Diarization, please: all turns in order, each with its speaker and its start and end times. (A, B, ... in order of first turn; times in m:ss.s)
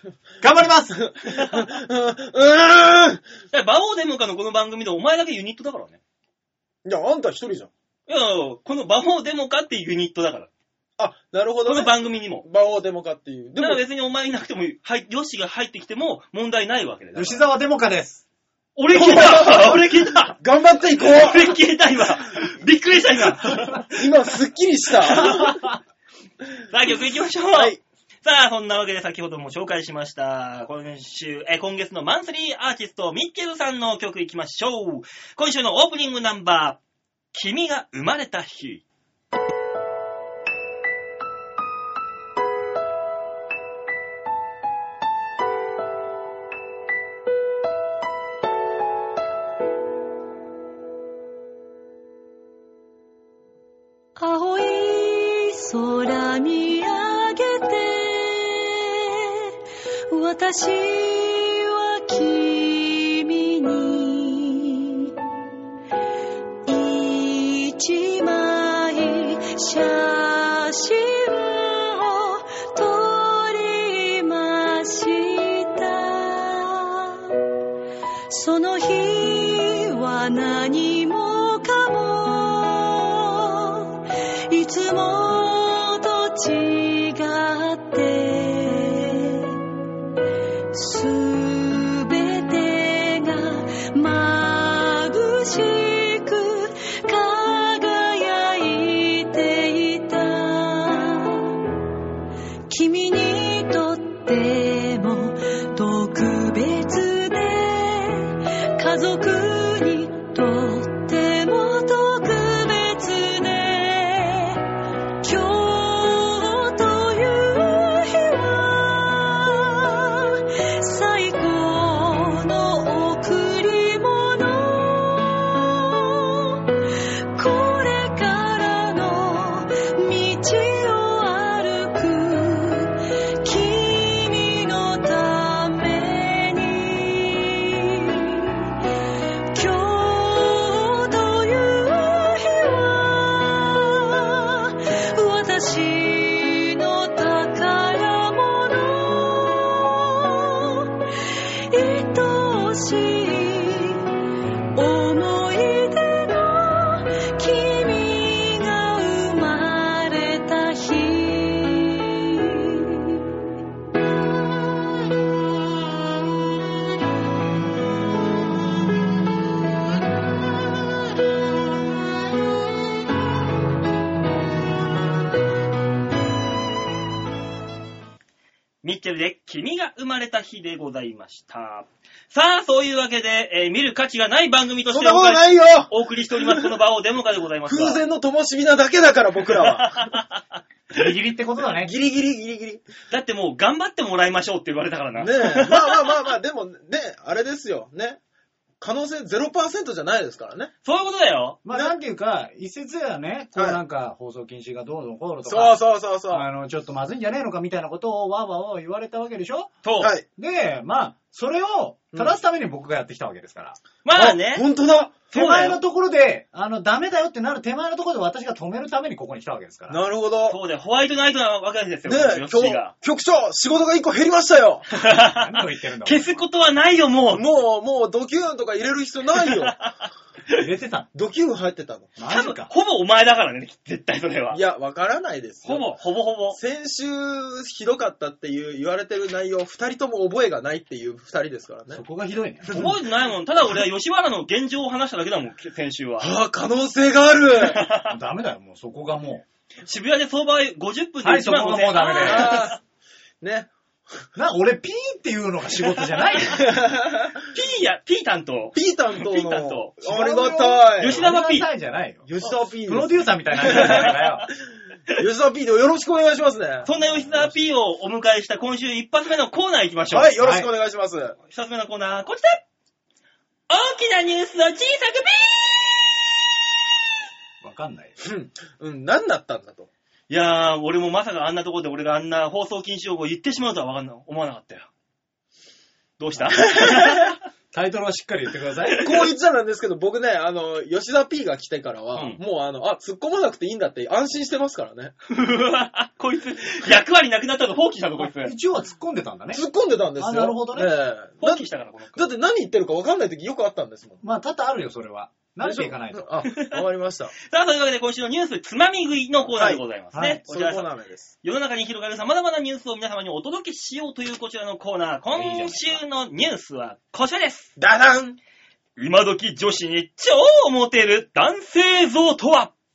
0:00.4-0:01.1 A
0:01.0-0:03.2 B
0:01.3-0:01.6 C
0:03.5-0:06.0 C
0:06.8-0:07.7 B
0:08.1-0:10.5 C
0:11.0-0:13.8 B
0:11.6-0:12.4 C
0:13.6-0:17.4 C
0:17.1-0:18.2 A
0:18.8-0:20.4 C
0:18.9-0:21.6 B
0:21.0-0:24.0 C
0:23.9-0:25.6 B
0:25.1-0:25.6 C
0:25.2-0:25.8 A
0:26.7-0:36.8 C
0:37.3-0:38.8 C
0:54.2-0:59.5 D
1:00.1-1:05.1 D
1:06.6-1:17.3 D
1:18.3-1:29.6 D
1:30.7-1:41.6 D
1:42.7-1:54.6 D
1:55.2-2:06.6 D
2:07.4-2:18.7 D
2:19.5-2:30.9 D
2:31.7-2:34.1 D
2:34.8-2:43.2 D
2:58.8-3:08.0 C
3:04.9-3:05.9 B
3:07.6-3:10.2 B
3:09.6-3:10.4 C
3:10.9-3:11.9 A
3:11.8-3:12.8 B
3:13.1-3:16.1 C
3:15.2-3:18.2 B
3:18.8-3:20.7 B
3:20.8-3:21.6 C
3:21.6-3:29.8 A
3:25.5-3:26.5 B
3:29.8-3:30.1 C
3:30.0-3:30.2 B
3:30.4-3:33.8 A
3:34.0-3:34.6 C
3:34.1-3:35.2 B
3:35.3-3:35.8 C
3:35.3-3:40.0 A
3:39.9-3:40.6 B
3:40.5-3:42.9 C
3:42.0-3:44.9 B
3:44.9-3:47.4 C
3:45.1-3:46.4 A
3:47.3-3:49.8 B
3:50.5-3:51.1 A
3:51.1-3:52.1 B
3:52.2-3:52.7 A
3:52.3-3:54.6 C
3:54.5-3:55.9 B
3:55.6-3:56.6 C
3:56.5-4:02.0 B
4:01.9-4:02.9 A
4:02.7-4:02.9 B
4:02.7-4:06.3 C
4:06.2-4:07.8 B
4:07.6-4:08.2 C
4:08.1-4:09.4 A
4:09.9-4:12.8 C
4:11.2-4:12.6 A
4:12.2-4:12.8 B
4:13.4-4:13.7 B
4:14.4-4:16.7 A
4:16.5-4:17.4 B
4:17.5-4:20.0 C
4:18.8-4:21.3 B
4:20.0-4:24.5 A
4:21.0-4:21.7 C
4:22.2-4:24.2 B
4:23.6-4:24.4 C
4:25.1-4:27.4 B
4:26.8-4:30.3 C
4:27.0-4:27.5 A
4:30.1-4:31.4 B
4:30.4-4:30.7 A
4:31.5-4:32.6 C
4:33.7-4:36.2 C
4:37.6-4:38.2 A
4:38.2-4:39.9 B
4:40.3-4:44.9 C
4:46.2-4:47.4 C
4:46.3-4:46.7 A
4:46.6-4:47.3 B
4:47.7-4:49.1 A
4:48.9-4:49.2 C
4:49.0-4:55.1 B
4:52.1-4:52.4 C
4:55.3-4:58.5 C
4:58.2-4:59.6 A
4:59.5-5:04.2 B
5:00.2-5:00.9 A
5:01.4-5:02.2 C
5:04.2-5:06.3 A
5:05.6-5:07.3 B
5:06.5-5:06.8 C
5:07.4-5:10.9 C
5:10.1-5:10.4 A
5:10.4-5:11.3 B
5:11.4-5:17.7 C
5:15.3-5:16.0 A
5:17.8-5:18.4 B
5:19.0-5:22.7 C